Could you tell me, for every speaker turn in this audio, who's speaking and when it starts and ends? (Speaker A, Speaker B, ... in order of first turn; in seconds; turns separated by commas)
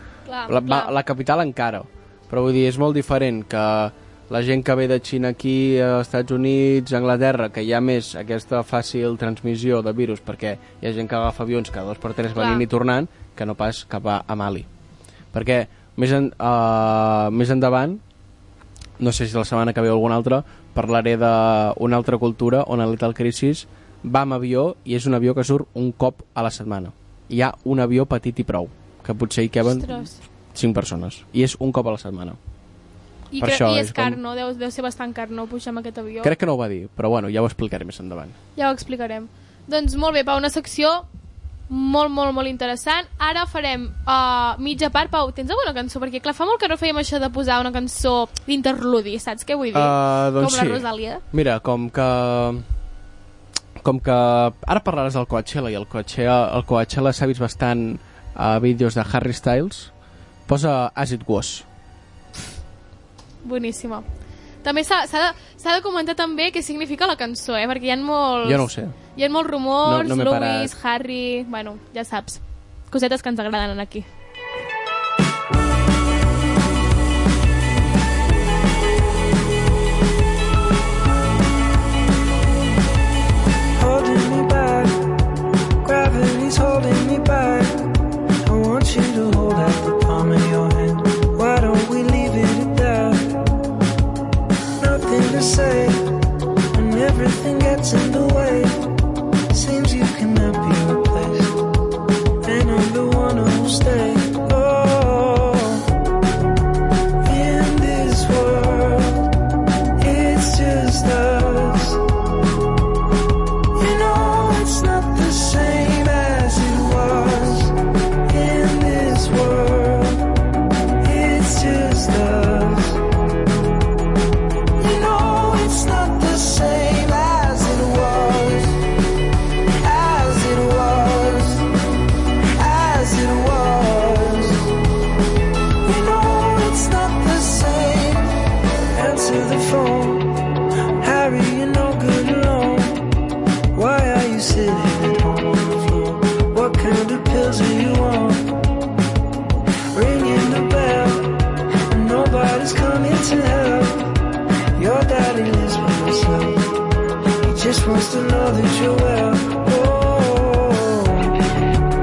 Speaker A: 0.3-0.9, Speaker B: 0.5-14.7, Speaker A: 12.3-12.7, Speaker B: 15.3-18.0, Speaker B: 19.0-32.4, Speaker A: 29.6-30.2, Speaker A: 33.3-36.3, Speaker B: 33.4-34.2, Speaker B: 36.2-38.4, Speaker A: 38.6-41.1, Speaker A: 41.7-51.2, Speaker B: 49.7-52.6, Speaker B: 53.8-59.9, Speaker B: 60.5-61.7, Speaker A: 63.4-64.1, Speaker A: 64.6-74.1, Speaker B: 68.4-69.0, Speaker B: 69.8-70.7, Speaker C: 83.8-85.2, Speaker C: 85.8-87.9, Speaker C: 88.4-93.5, Speaker C: 94.8-96.2, Speaker C: 96.7-98.9, Speaker C: 99.5-101.6, Speaker C: 102.4-105.9, Speaker C: 107.2-109.3, Speaker C: 110.0-112.0, Speaker C: 113.8-117.8, Speaker C: 118.3-120.3, Speaker C: 121.0-123.0, Speaker C: 124.8-128.8, Speaker C: 129.8-131.7, Speaker C: 132.6-134.7, Speaker C: 135.8-138.4, Speaker C: 138.9-140.4, Speaker C: 141.0-143.1, Speaker C: 143.7-148.6, Speaker C: 149.9-154.2, Speaker C: 154.8-156.7, Speaker C: 157.4-161.4